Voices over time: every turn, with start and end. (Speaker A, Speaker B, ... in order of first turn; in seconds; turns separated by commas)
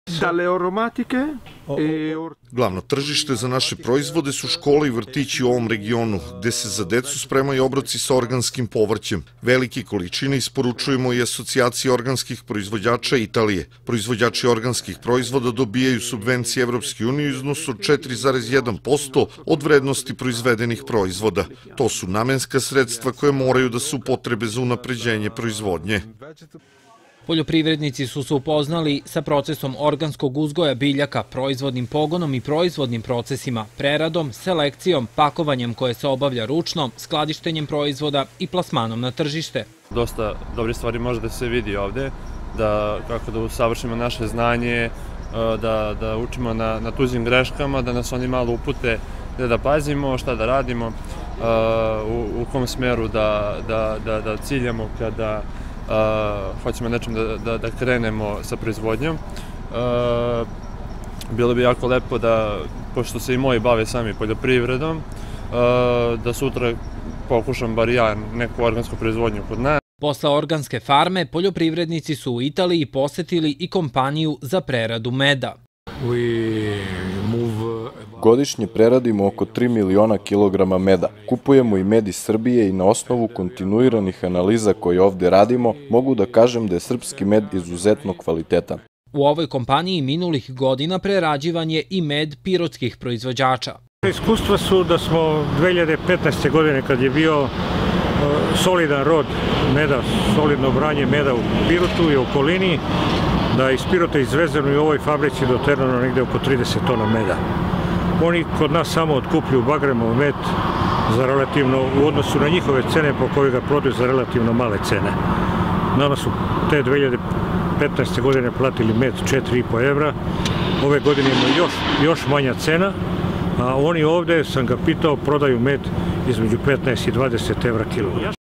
Speaker A: 0.1-2.3, Speaker B: 2.5-26.0, Speaker C: 27.2-39.7, Speaker D: 39.9-60.5, Speaker D: 61.3-69.8, Speaker C: 70.0-75.6, Speaker E: 76.0-78.0, Speaker F: 78.1-88.8, Speaker C: 89.1-93.8, Speaker E: 94.0-97.5, Speaker E: 98.2-102.8, Speaker E: 103.5-107.4, Speaker E: 108.2-110.5, Speaker E: 111.0-115.2, Speaker E: 115.9-117.2, Speaker E: 117.8-120.2, Speaker E: 120.8-123.0, Speaker E: 123.6-128.3